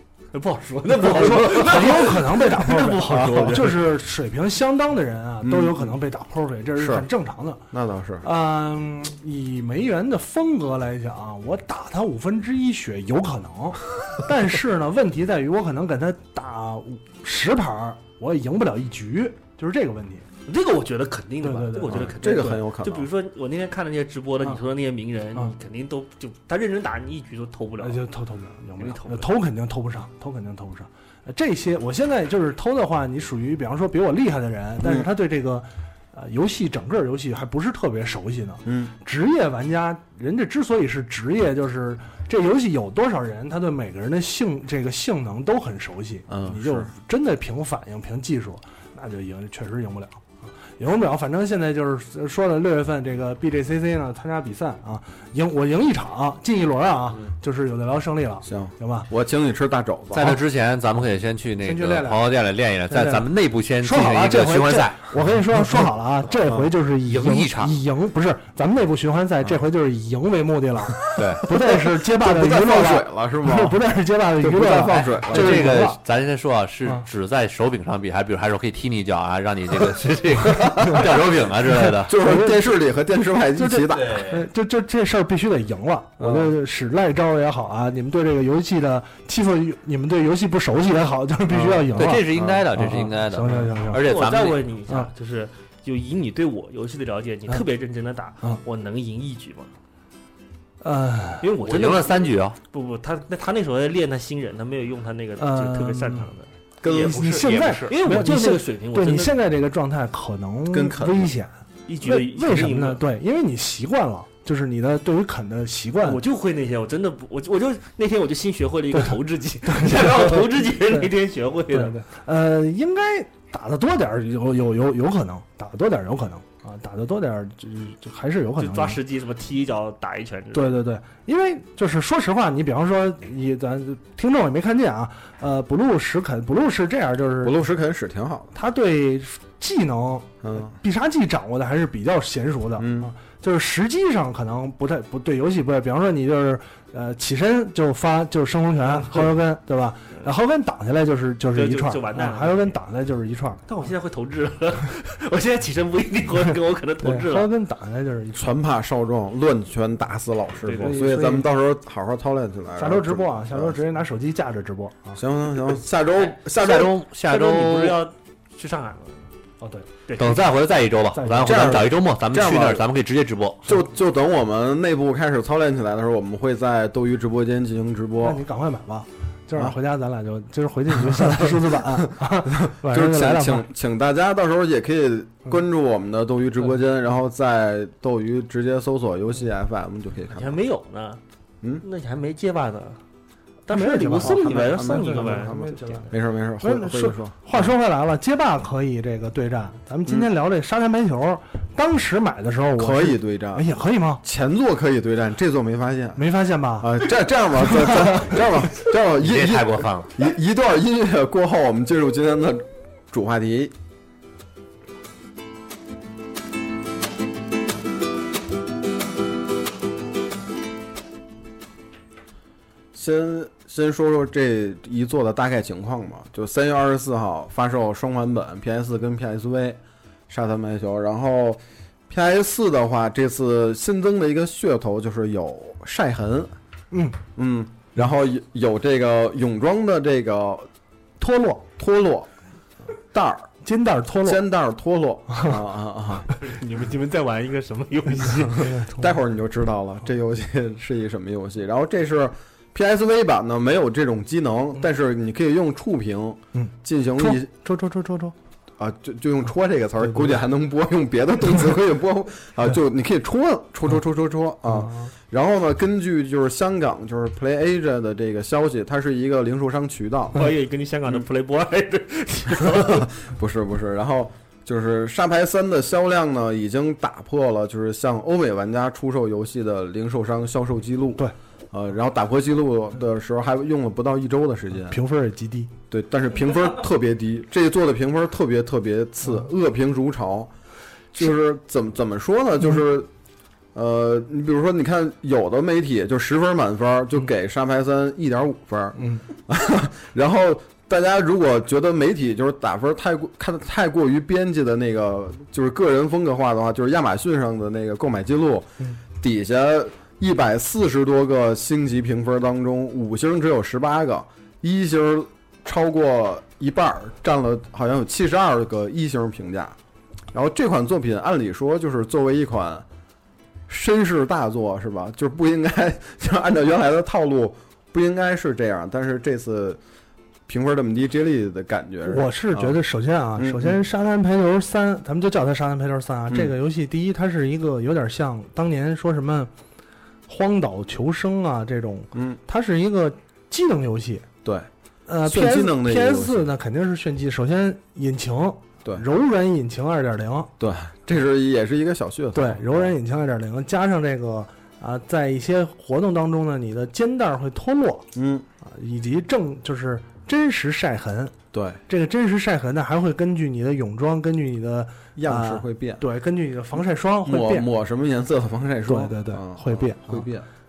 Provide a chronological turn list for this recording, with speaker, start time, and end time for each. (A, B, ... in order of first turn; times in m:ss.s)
0:00.3-0:03.8 A
0:00.9-0:02.0 B
0:01.1-0:07.6 C
0:03.0-0:03.7 B
0:05.4-0:06.0 B
0:06.8-0:07.1 B
0:07.7-0:08.2 B
0:08.2-0:20.2 C
0:20.4-0:28.0 A
0:21.4-0:22.0 C
0:21.9-0:23.1 B
0:27.8-0:59.1 C
0:28.8-0:29.3 A
0:34.8-0:35.1 B
0:38.6-0:38.9 B
0:46.3-0:46.9 B
0:58.4-1:00.4 B
1:00.1-1:05.1 D
1:01.6-1:02.2 C
1:02.9-1:03.2 C
1:03.8-1:16.0 C
1:07.1-1:07.8 D
1:11.1-1:11.4 D
1:11.4-1:13.8 B
1:14.4-1:15.9 B
1:15.3-1:22.1 D
1:20.5-1:21.2 B
1:21.9-1:22.7 C
1:22.0-1:24.3 B
1:23.5-1:34.0 C
1:23.9-1:24.4 D
1:26.2-1:26.5 B
1:31.5-1:34.7 D
1:32.3-1:32.6 B
1:34.0-1:39.7 A
1:40.8-1:41.5 C
1:41.4-1:49.4 A
1:41.6-1:42.6 D
1:45.4-1:46.3 C
1:46.8-1:48.0 D
1:47.0-1:56.2 C
1:50.7-1:51.3 B
1:51.9-1:53.0 A
1:56.0-2:02.0 A
1:59.7-2:00.4 C
2:01.7-2:09.0 C
2:08.6-2:10.8 A
2:10.5-2:17.6 C
2:17.4-2:18.5 B
2:18.5-2:33.6 C
2:20.4-2:20.8 B
2:22.8-2:23.1 B
2:31.5-2:32.8 A
2:33.7-2:37.5 A
2:37.0-2:38.5 C
2:38.3-2:43.8 B
2:40.6-2:41.0 A
2:40.8-2:41.5 C
2:42.8-2:45.2 C
2:45.2-2:47.0 B
2:46.5-2:48.0 D
2:47.3-2:49.3 A
2:49.6-2:49.8 C
2:50.1-2:50.4 A
2:50.2-2:53.7 D
2:51.1-2:51.8 C
2:51.4-2:52.8 B
2:53.6-2:58.4 B
2:58.2-3:03.6 C
3:00.9-3:10.6 B
3:10.3-3:11.2 A
3:11.8-3:13.0 A
3:13.7-3:16.1 A
3:13.7-3:24.2 C
3:14.2-3:17.7 B
3:22.8-3:23.7 B
3:24.2-3:26.2 B
3:26.2-3:27.1 C
3:26.8-3:33.7 B
3:27.6-3:28.4 C
3:29.2-3:30.1 D
3:42.9-3:56.5 B
3:56.9-3:57.2 C
3:57.3-4:00.7 B
4:01.2-4:01.6 C
4:01.8-4:02.3 B
4:03.1-4:03.5 B
4:03.6-4:04.4 C
4:04.2-4:06.3 B
4:05.3-4:05.6 C
4:06.3-4:08.8 A
4:08.6-4:09.0 C
4:08.8-4:17.5 B
4:16.5-4:18.3 C
4:18.8-4:30.4 B
4:24.7-4:25.1 C
4:30.3-4:33.1 A
4:32.6-4:45.0 B
4:44.9-4:45.7 C
4:45.9-4:50.5 B
4:51.1-4:53.1 B
4:53.7-5:19.8 B
4:59.0-4:59.2 C
5:20.3-5:22.8 B
5:23.7-5:29.8 B
5:30.5-5:32.8 B
5:32.0-5:39.5 C
5:33.4-5:33.8 B
5:36.3-5:36.5 B
5:40.3-5:44.2 C
5:42.1-5:42.4 B
5:45.1-5:50.5 C
5:45.2-5:46.5 B
5:50.6-5:52.9 B
5:52.3-5:58.0 C
5:58.1-5:58.4 B
5:58.6-6:01.3 C
6:01.5-6:01.8 B
6:01.9-6:07.7 C
6:05.2-6:06.0 B
6:07.2-6:10.4 B
6:08.8-6:10.3 C